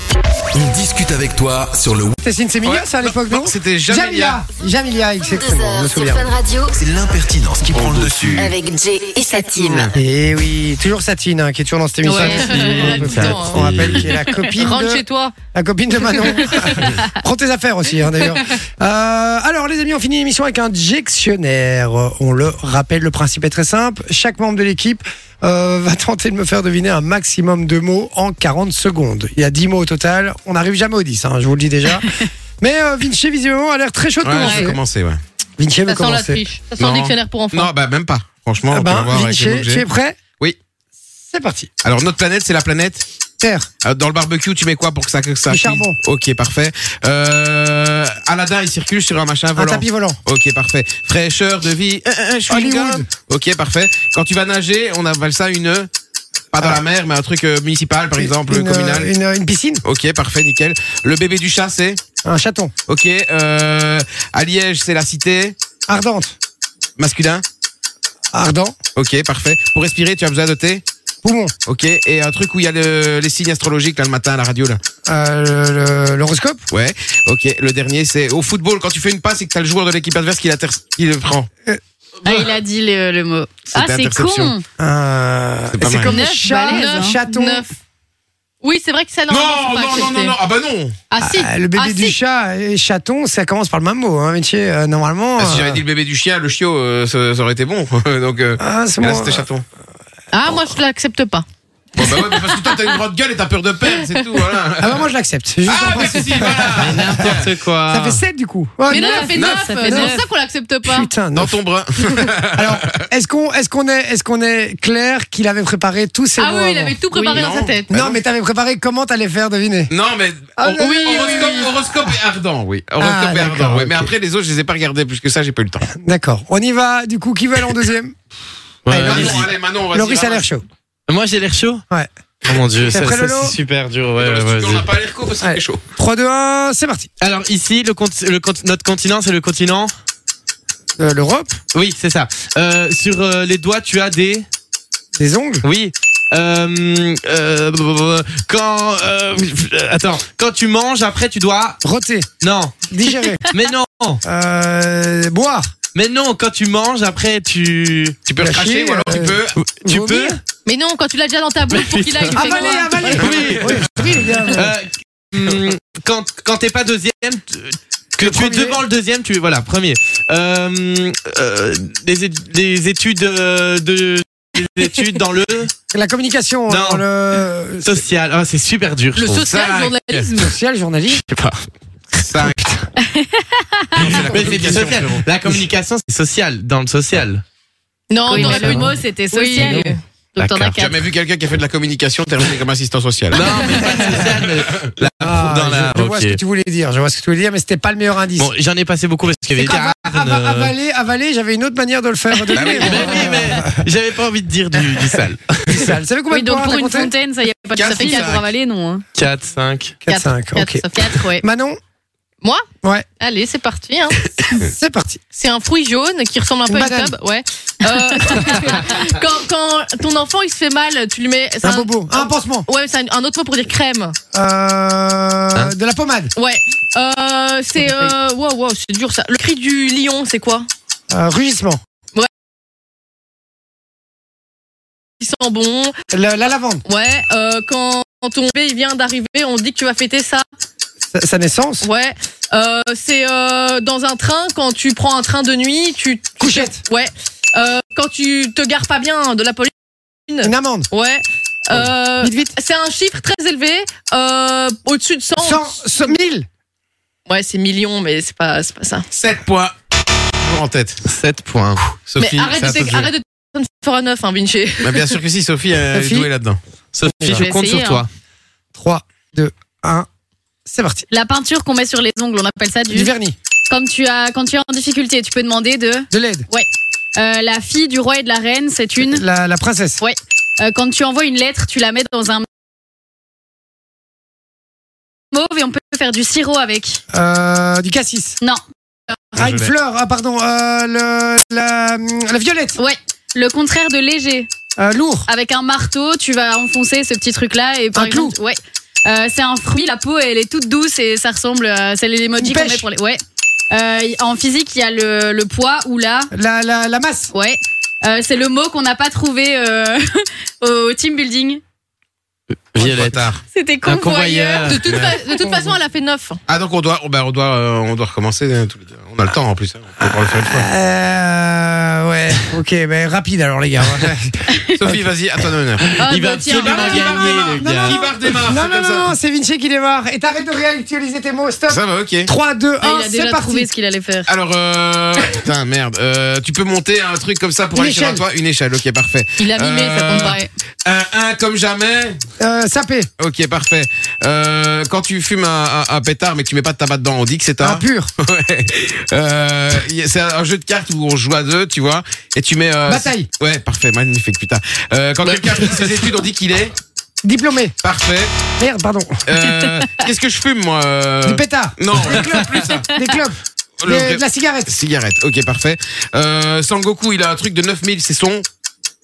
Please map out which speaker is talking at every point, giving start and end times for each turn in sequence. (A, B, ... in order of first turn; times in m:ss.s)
0:00.5-0:02.2 A
0:02.2-0:06.3 B
0:02.6-0:04.4 C
0:05.2-0:06.8 D
0:06.7-0:08.6 A
0:07.6-0:08.4 B
0:08.4-0:09.9 D
0:09.6-0:09.9 C
0:09.9-0:34.8 B
0:12.0-0:12.6 E
0:12.1-0:14.1 F
0:12.1-0:13.9 G
0:14.5-0:15.3 G
0:16.1-0:16.9 G
0:34.2-0:35.2 C
0:35.6-0:36.4 B
0:35.9-0:37.7 G
0:36.8-0:39.8 C
0:38.7-0:40.2 B
0:41.3-0:41.7 B
0:41.8-0:43.0 C
0:43.4-0:43.7 B
0:43.8-0:55.9 C
0:45.5-0:46.0 B
0:49.5-0:50.2 B
0:52.5-0:53.0 B
0:56.5-0:59.1 C
0:58.2-0:59.8 B
0:59.8-1:02.0 C
1:02.2-1:02.7 B
1:02.9-1:05.6 C
1:05.9-1:06.3 B
1:07.0-1:07.4 C
1:08.3-1:08.8 B
1:09.0-1:10.8 C
1:11.2-1:11.5 B
1:11.6-1:14.8 C
1:15.0-1:16.6 B
1:16.7-1:21.5 C
1:22.2-1:24.6 E
1:23.7-1:24.5 C
1:24.8-1:27.7 B
1:25.7-1:26.1 C
1:26.0-1:27.2 E
1:26.6-1:27.7 G
1:28.6-1:30.4 G
1:29.3-1:30.9 C
1:31.1-1:32.1 E
1:31.2-1:35.8 B
1:35.4-1:39.6 C
1:38.6-1:39.4 B
1:40.3-1:41.4 G
1:42.0-1:45.0 C
1:42.0-1:42.7 G
1:44.8-1:50.2 B
1:45.6-1:47.5 C
1:46.8-1:48.2 F
1:48.9-1:51.1 G
1:48.9-1:50.2 E
1:49.4-1:49.6 C
1:50.8-1:51.6 B
1:51.4-1:53.0 C
1:52.5-1:57.0 B
1:56.4-1:57.9 G
1:57.1-1:57.4 E
1:57.3-1:58.2 C
1:57.9-1:59.9 B
1:59.9-2:05.9 C
2:00.6-2:01.8 B
2:00.8-2:01.7 G
2:03.0-2:04.1 B
2:05.9-2:08.2 B
2:08.8-2:09.5 F
2:08.9-2:10.6 B
2:08.9-2:10.4 C
2:11.1-2:11.8 F
2:12.4-2:14.9 F
2:12.8-2:13.6 B
2:14.2-2:15.8 C
2:15.4-2:17.1 B
2:17.2-2:19.9 F
2:21.0-2:21.6 B
2:21.7-2:24.4 F
2:25.2-2:25.6 B
2:25.6-2:31.8 F
2:31.8-2:32.3 B
2:32.4-2:32.8 F
2:32.9-2:33.4 B
2:33.5-2:34.2 F
2:34.2-2:35.7 B
2:35.9-2:38.2 F
2:38.3-2:39.5 C
2:38.4-2:40.4 B
2:39.6-2:40.4 F
2:40.6-2:43.4 G
2:41.7-2:43.9 F
2:42.3-2:44.7 B
2:44.5-2:55.7 F
2:48.2-2:48.8 B
2:55.9-2:58.0 B
2:56.7-2:57.0 F
2:57.8-2:59.5 F
2:59.2-3:00.5 G
2:59.3-3:00.3 C
3:00.4-3:01.2 B
3:01.2-3:01.6 F
3:02.2-3:02.6 C
3:03.0-3:04.2 E
3:04.0-3:05.2 C
3:04.2-3:07.4 F
3:08.1-3:10.0 G
3:08.2-3:10.9 E
3:08.3-3:08.8 F
3:09.6-3:09.9 B
3:10.4-3:10.8 F
3:10.8-3:14.9 C
3:13.3-3:16.4 F
3:15.0-3:18.5 B
3:18.4-3:20.7 F
3:19.5-3:23.8 B
3:22.5-3:23.3 C
3:22.6-3:25.9 F
3:24.8-3:27.1 B
3:26.3-3:29.0 E
3:27.8-3:28.4 C
3:27.9-3:28.4 G
3:29.1-3:30.0 F
3:30.0-3:31.8 B
3:30.1-3:30.9 G
3:30.9-3:31.4 E
3:32.4-3:32.7 G
3:33.2-3:34.6 G
3:34.6-3:35.2 B
3:35.3-3:44.2 G
3:36.7-3:37.1 B
3:41.6-3:42.7 B
3:44.3-3:46.3 B
3:46.4-3:50.7 G
3:47.8-3:48.1 B
3:51.1-3:51.8 B
3:55.2-3:55.9 G
3:56.1-3:56.8 B
3:56.8-4:00.4 G
4:01.1-4:01.9 B
4:01.8-4:09.7 G
4:06.4-4:06.8 B
4:10.3-4:16.2 G
4:10.4-4:10.9 B
4:11.7-4:12.5 B
4:15.4-4:16.5 B
4:17.3-4:19.0 G
4:19.1-4:19.7 C
4:20.3-4:21.0 C
4:21.0-4:21.8 F
4:22.0-4:23.1 C
4:22.2-4:25.2 G
4:24.8-4:26.6 C
4:25.9-4:26.3 B
4:26.9-4:28.1 F
4:27.0-4:27.4 B
4:27.2-4:28.0 E
4:28.7-4:30.1 B
4:30.6-4:31.0 B
4:31.1-4:33.1 E
4:32.9-4:33.4 B
4:33.7-4:39.2 E
4:36.1-4:36.5 B
4:39.0-4:40.0 B
4:40.0-4:42.4 E
4:45.3-4:47.0 E
4:47.1-4:48.4 B
4:49.3-4:52.8 B
4:49.4-4:49.7 C
4:52.8-4:54.5 E
4:54.8-4:55.3 B
4:55.3-5:06.3 E
4:57.9-4:58.3 B
5:02.4-5:02.9 B
5:06.3-5:07.3 B
5:07.3-5:11.6 E
5:12.7-5:13.3 F
5:12.8-5:13.4 C
5:13.5-5:14.8 E
5:13.8-5:15.2 F
5:14.6-5:16.4 G
5:16.5-5:20.7 C
5:20.0-5:24.4 B
5:24.5-5:24.7 E
5:24.7-5:26.0 C
5:25.9-5:28.0 F
5:26.0-5:26.4 E
5:26.0-5:27.4 G
5:26.6-5:27.0 B
5:26.6-5:29.1 C
5:27.6-5:33.7 B
5:31.7-5:32.3 C
5:32.8-5:34.3 E
5:34.3-5:42.2 C
5:37.7-5:38.2 B
5:39.4-5:40.4 G
5:40.1-5:40.5 E
5:42.4-5:43.1 B
5:43.2-5:56.7 C
5:47.6-5:48.1 B
5:52.9-5:53.3 B
5:57.2-5:57.7 B
5:57.8-5:58.3 C
5:58.6-5:59.2 B
5:59.3-6:03.0 C
6:01.2-6:04.7 B
6:03.8-6:08.4 C